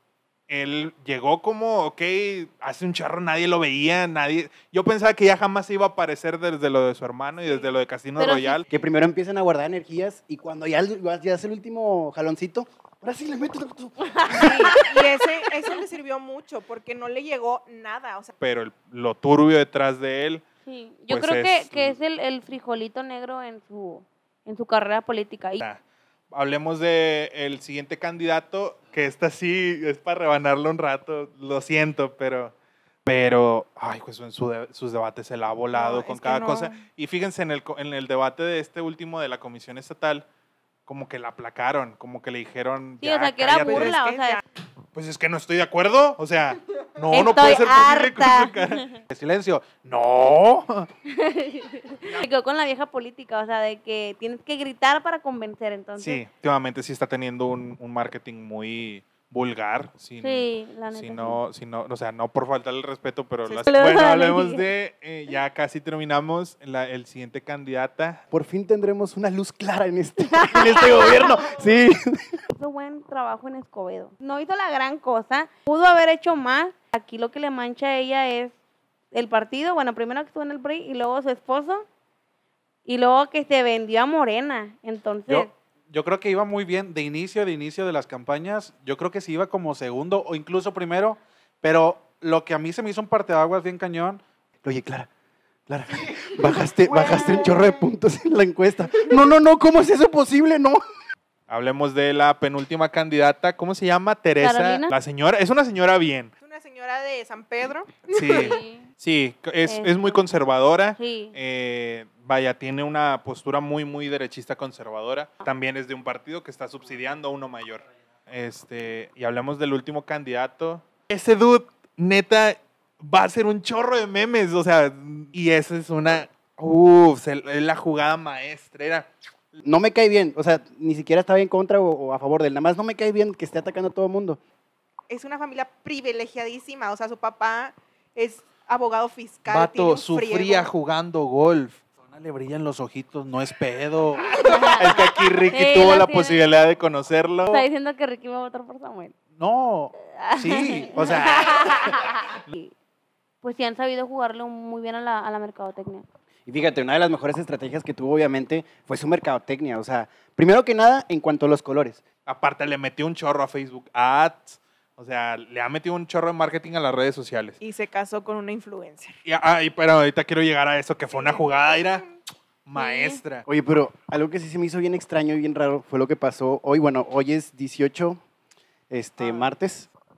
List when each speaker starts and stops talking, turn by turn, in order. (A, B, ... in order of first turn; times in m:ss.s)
0:00.5-0:08.7 A
0:07.4-0:07.7 B
0:08.2-0:08.6 C
0:08.7-0:14.7 D
0:14.1-0:15.0 C
0:14.3-0:18.3 B
0:18.4-0:20.4 A
0:20.6-0:25.6 C
0:21.1-0:22.0 A
0:26.3-0:32.5 A
0:33.0-0:40.2 A
0:35.7-0:36.8 B
0:40.9-0:44.0 A
0:43.0-0:44.4 C
0:43.6-0:44.4 B
0:44.9-0:48.9 A
0:47.1-0:48.9 C
0:49.1-0:50.7 E
0:51.1-0:56.2 C
0:56.0-1:08.2 A
1:00.2-1:01.4 C
1:03.4-1:03.7 B
1:03.7-1:04.6 C
1:08.3-1:12.4 D
1:10.2-1:11.6 C
1:12.6-1:18.6 C
1:19.1-1:21.9 C
1:22.9-1:25.5 C
1:25.3-1:34.2 E
1:34.6-1:35.1 D
1:35.7-1:40.8 D
1:36.9-1:37.6 C
1:41.5-1:46.3 A
1:44.4-1:44.9 C
1:46.4-1:48.6 B
1:48.1-2:09.1 A
1:48.3-1:48.9 C
1:49.6-1:50.2 C
1:51.0-1:51.4 C
2:09.6-2:14.4 D
2:15.1-2:20.7 B
2:19.9-2:24.3 E
2:24.2-2:27.6 A
2:24.4-2:26.4 C
2:27.5-2:29.2 C
2:29.4-2:31.0 E
2:30.1-2:32.7 C
2:33.4-2:36.0 C
2:36.5-2:42.0 D
2:42.3-2:47.6 A
2:47.6-2:49.1 B
2:49.2-2:52.1 A
2:51.1-2:52.1 B
2:52.7-2:53.4 A
2:52.8-2:53.2 C
2:53.5-2:58.2 D
2:58.9-2:59.9 D
2:59.2-2:59.5 B